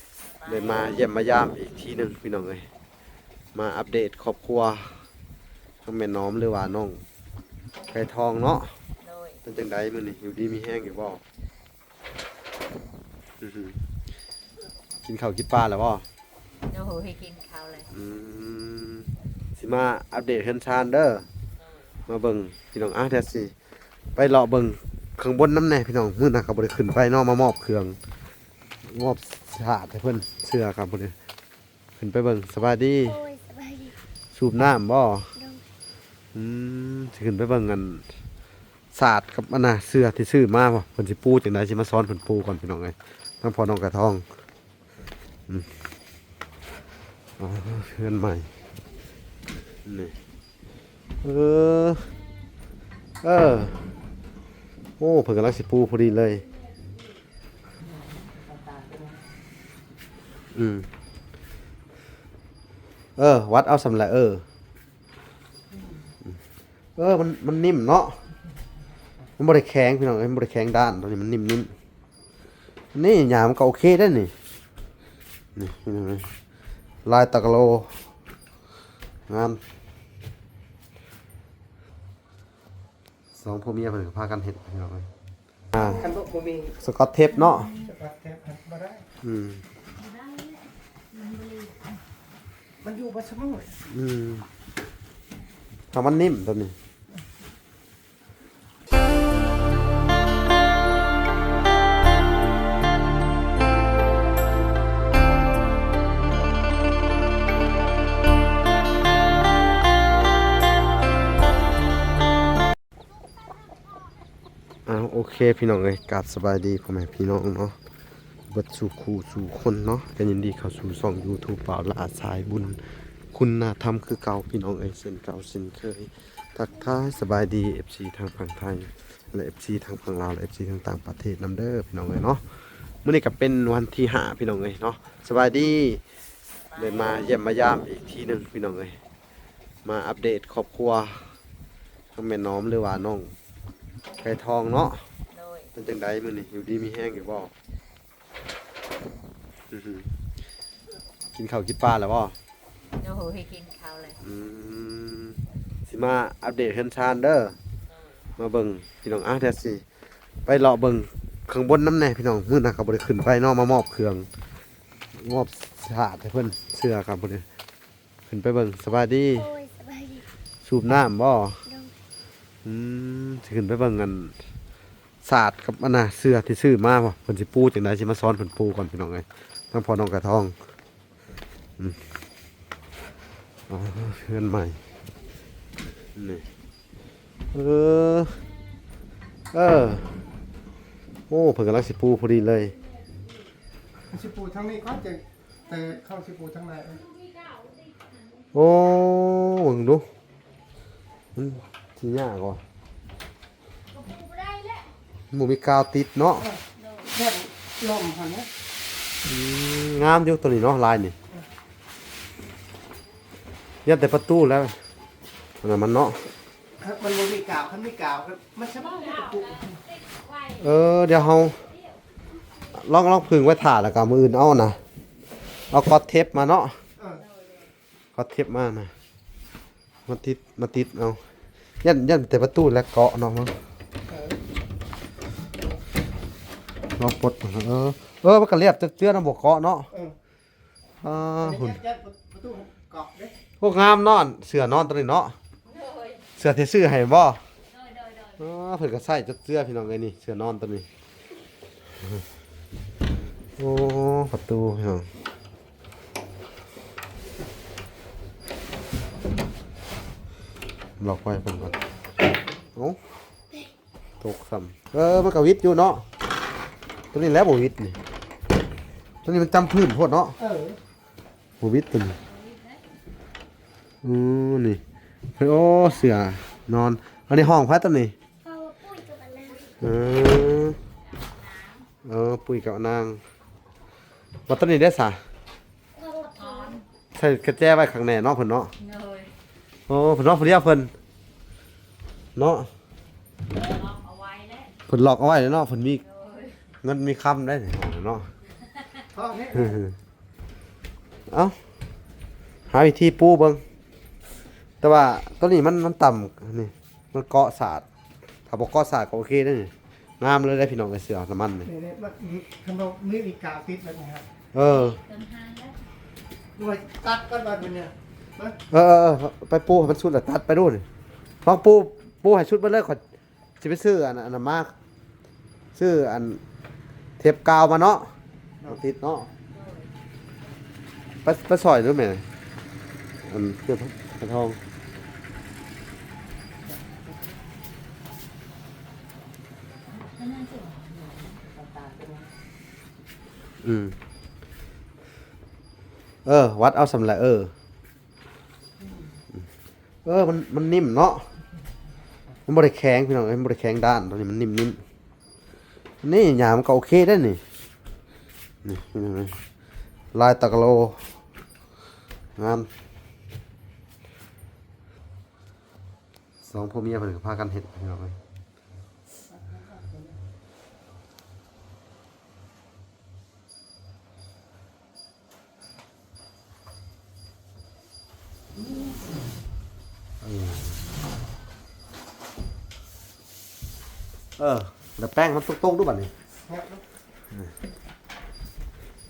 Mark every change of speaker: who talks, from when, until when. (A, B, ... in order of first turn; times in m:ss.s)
0:00.4-0:01.0 A
0:00.4-0:02.7 B
0:03.5-0:05.0 B
0:05.8-0:07.0 B
0:07.9-0:08.7 B
0:09.0-0:09.4 A
0:09.4-0:11.2 B
0:13.4-0:13.8 B
0:15.0-0:16.0 B
0:16.7-0:17.9 A
0:17.9-0:21.2 B
0:22.1-0:23.5 B
0:24.2-0:28.0 B
0:28.8-0:31.1 B
0:32.0-0:33.2 B
0:33.0-0:34.0 C
0:34.3-0:35.3 B
0:35.3-0:35.7 C
0:36.3-0:38.0 B
0:38.9-0:44.2 B
0:45.5-0:45.7 B
0:47.4-0:48.5 B
0:49.8-0:50.1 B
0:51.2-0:52.1 B
0:53.2-0:53.8 B
0:55.0-0:56.4 B
0:57.8-0:59.2 D
1:00.5-1:00.9 B
1:03.2-1:04.4 B
1:05.7-1:06.0 D
1:07.0-1:08.2 B
1:09.4-1:11.7 B
1:12.9-1:14.3 B
1:15.6-1:16.3 B
1:17.0-1:17.9 B
1:19.3-1:19.6 B
1:23.4-1:25.1 B
1:25.7-1:26.1 B
1:25.8-1:26.1 A
1:25.8-1:26.8 D
1:26.8-1:27.7 B
1:27.3-1:27.9 A
1:27.8-1:29.0 D
1:29.2-1:29.6 B
1:30.0-1:31.8 A
1:32.8-1:33.8 D
1:33.9-1:34.4 B
1:35.9-1:36.7 B
1:54.8-1:57.8 B
1:58.5-2:12.4 B
2:13.0-2:16.0 B
2:16.7-2:17.3 A
2:16.8-2:19.0 B
2:19.8-2:21.2 B
2:22.1-2:23.3 B
2:24.2-2:25.0 B
2:25.3-2:25.7 A
2:25.7-2:27.5 B
2:29.7-2:30.1 B
2:31.3-2:32.3 B
2:33.0-2:34.2 A
2:34.2-2:37.6 B
2:38.4-2:39.8 B
2:40.4-2:44.3 B
2:45.1-2:47.4 B
2:48.3-2:49.5 B
2:49.3-2:50.3 C
2:50.6-2:51.6 B
2:51.6-2:52.0 C
2:52.6-2:54.3 B
2:55.2-3:00.5 B
3:03.7-3:04.8 B
3:06.2-3:06.4 B
3:07.5-3:08.4 B
3:09.5-3:10.1 B
3:11.3-3:12.7 B
3:14.1-3:17.0 D
3:17.0-3:18.5 A
3:18.5-3:20.1 B
3:21.3-3:22.6 B
3:23.9-3:24.9 A
3:25.3-3:26.5 B
3:26.4-3:28.5 D
3:26.8-3:27.1 A
3:29.2-3:31.1 B
3:33.8-3:34.8 B
3:35.6-3:36.3 B
3:36.8-3:39.7 D
3:38.8-3:42.0 A
3:40.6-3:41.6 B
3:42.7-3:44.8 B
3:45.7-3:46.8 B
3:47.0-3:47.2 D
3:47.2-3:47.7 A
3:48.1-3:48.9 B
3:50.1-3:51.2 B
3:51.8-3:53.6 B
3:54.1-3:54.4 D
3:57.0-3:59.9 B
4:01.0-4:01.8 B
4:01.4-4:03.4 D
4:03.6-4:05.4 B
4:05.6-4:06.2 A
4:06.4-4:07.4 B
4:07.7-4:08.4 A
4:08.4-4:10.9 B
4:13.6-4:15.1 B
4:21.0-4:21.8 B
4:24.2-4:26.0 B
4:27.1-4:28.0 B
4:29.2-4:30.4 B
4:30.4-4:30.8 D
4:31.6-4:32.2 B
4:32.2-4:32.8 A
4:34.0-4:34.8 B
4:35.4-4:38.1 B
4:38.4-4:39.7 C
4:39.5-4:39.9 A
4:39.8-4:40.8 B
4:41.0-4:41.8 A
4:42.0-4:43.2 B
4:44.5-4:45.2 B
4:45.9-4:46.8 C
4:46.4-4:46.8 A
4:47.1-4:48.7 B
4:48.8-4:49.3 A
4:49.9-4:50.9 B
4:52.4-4:52.7 B
4:53.5-4:54.7 A
4:54.9-4:56.0 B
4:56.0-4:56.6 A
4:56.8-4:58.3 B
4:59.1-4:59.8 D
4:59.6-4:59.9 B
5:01.3-5:01.6 B
5:02.7-5:03.6 B
5:04.8-5:07.8 B
5:08.5-5:11.7 B
5:11.6-5:14.3 D
5:14.5-5:15.0 B
5:14.6-5:15.8 A
5:16.6-5:18.6 D
5:18.7-5:20.8 B
5:21.4-5:23.0 B
5:23.6-5:24.7 B
5:25.8-5:26.4 B
5:27.2-5:28.1 B
5:28.7-5:29.3 B
5:29.5-5:29.9 A
5:31.2-5:32.2 B
5:33.2-5:34.6 B
5:36.6-5:37.4 D
5:40.2-5:40.9 A
5:40.9-5:42.3 D
5:43.6-5:44.0 B
5:46.2-5:47.5 B
5:48.8-5:49.2 D
5:50.0-5:51.3 B
5:52.5-5:54.8 B
5:56.0-5:57.4 B
5:58.6-5:59.4 B
6:00.1-6:01.0 B
6:02.4-6:02.7 B
6:06.4-6:08.1 B
6:09.3-6:10.2 D
6:20.2-6:20.8 B
6:24.4-6:26.1 B
6:26.5-6:26.8 D